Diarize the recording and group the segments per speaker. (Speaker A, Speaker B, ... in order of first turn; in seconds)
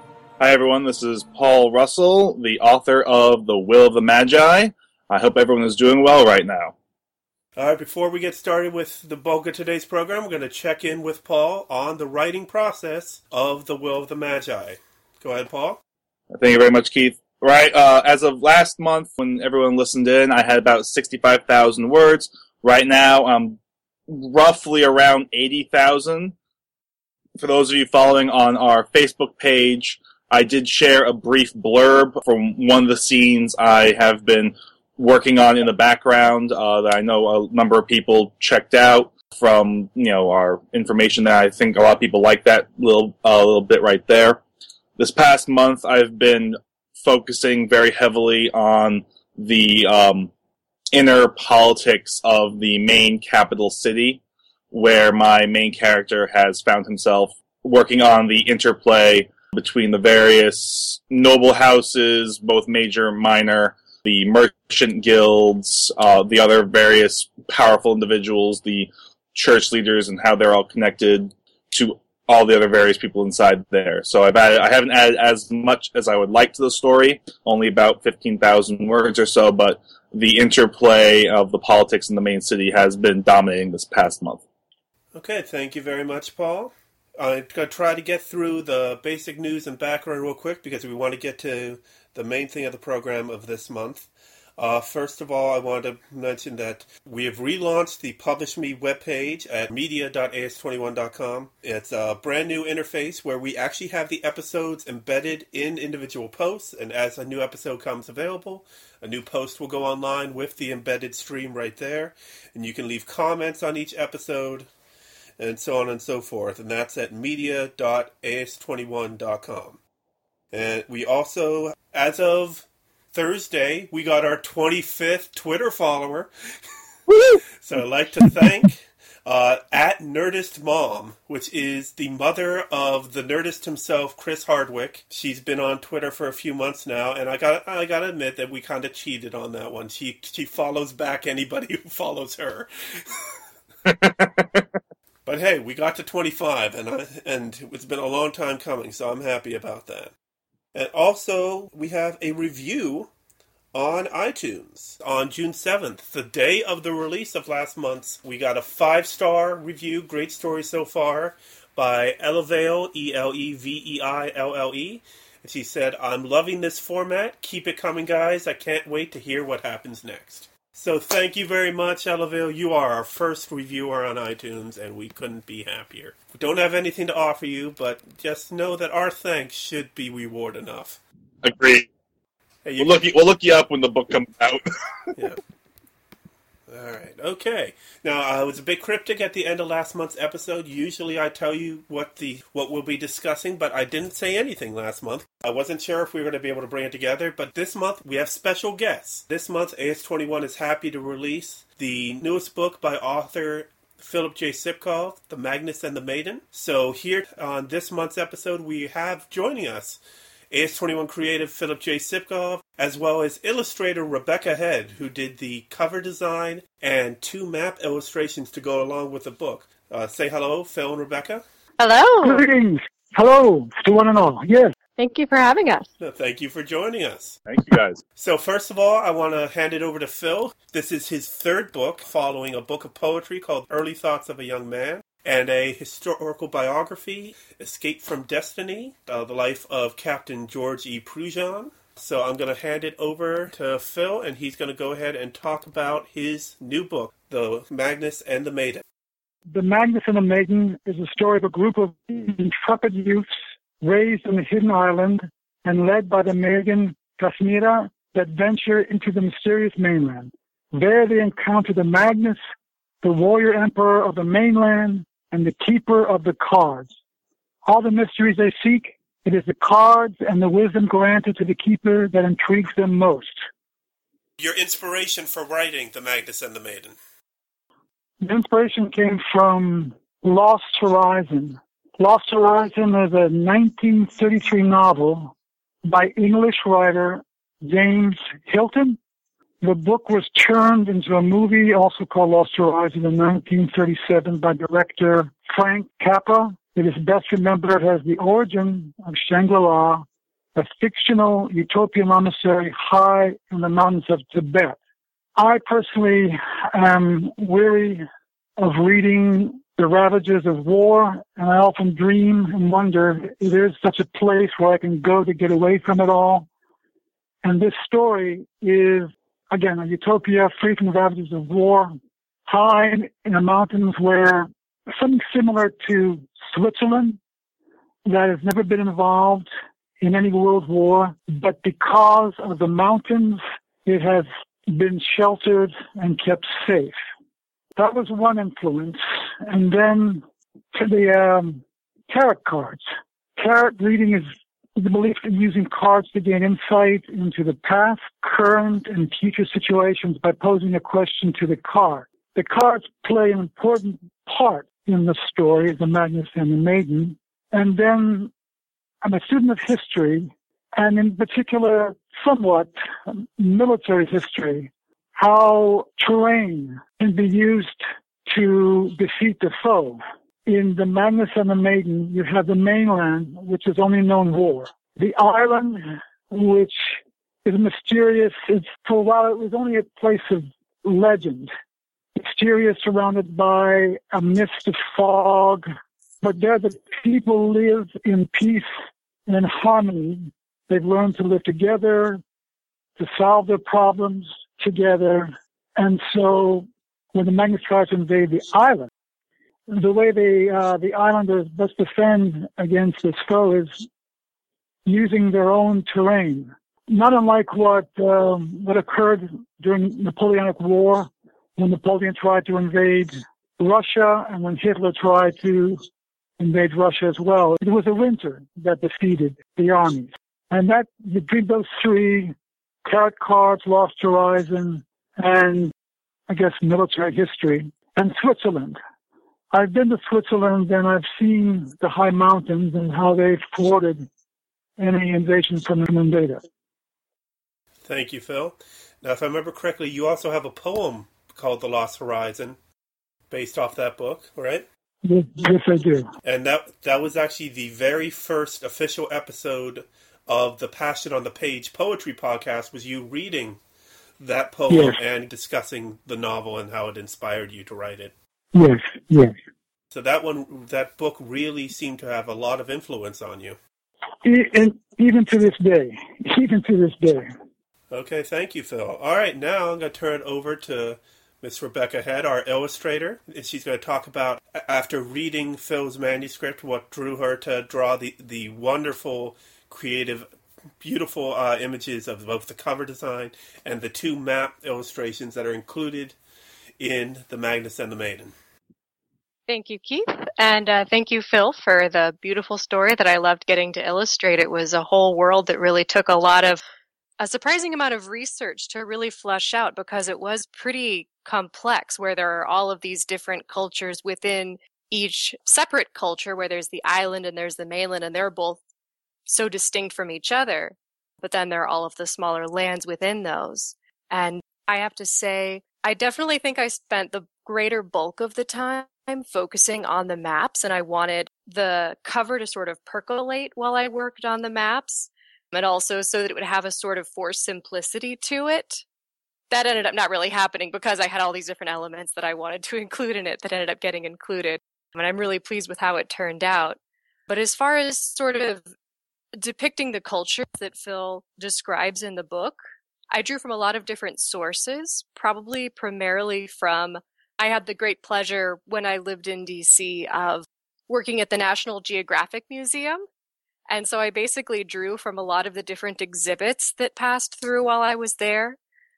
Speaker A: 0.4-6.7, 16.3-26.3, 27.4-44.4, 45.0-50.3, 50.9-54.2, 54.7-84.4, 143.9-144.6, 181.4-181.9, 182.8-184.6, 227.4-228.0
Speaker B: 7.6-15.8, 85.1-114.7, 115.4-119.8, 120.5-126.3, 127.6-143.3, 145.2-150.1, 150.7-153.1, 153.7-181.0, 182.6-183.0, 186.7-210.0, 210.5-221.4, 226.0-227.4, 228.2-248.8, 274.4-276.9, 437.8-442.6, 443.3-444.6, 446.2-453.6, 454.2-458.1, 459.9-463.6, 467.9-480.3, 480.8-486.1, 486.8-488.3
Speaker C: 221.8-222.4, 225.0-225.8, 489.5-496.6, 497.2-508.6, 509.2-528.8, 529.5-538.7, 539.4-553.0, 553.7-558.6
Speaker D: 222.2-224.7, 249.5-262.4, 263.0-266.9, 267.6-273.4, 278.2-285.3, 285.8-289.0, 289.6-304.8, 305.4-308.0, 308.6-316.5, 317.4-321.9, 322.5-327.2, 328.0-329.5, 330.0-336.9, 337.8-342.8, 343.4-358.3, 359.0-381.5, 382.1-385.6, 386.2-388.7, 389.3-392.2, 393.0-398.9, 399.7-403.8, 404.8-415.8, 416.4-425.7, 426.3-428.8, 429.5-434.1, 434.8-436.4, 445.0-446.1, 454.7-454.9, 458.5-459.3, 464.2-467.3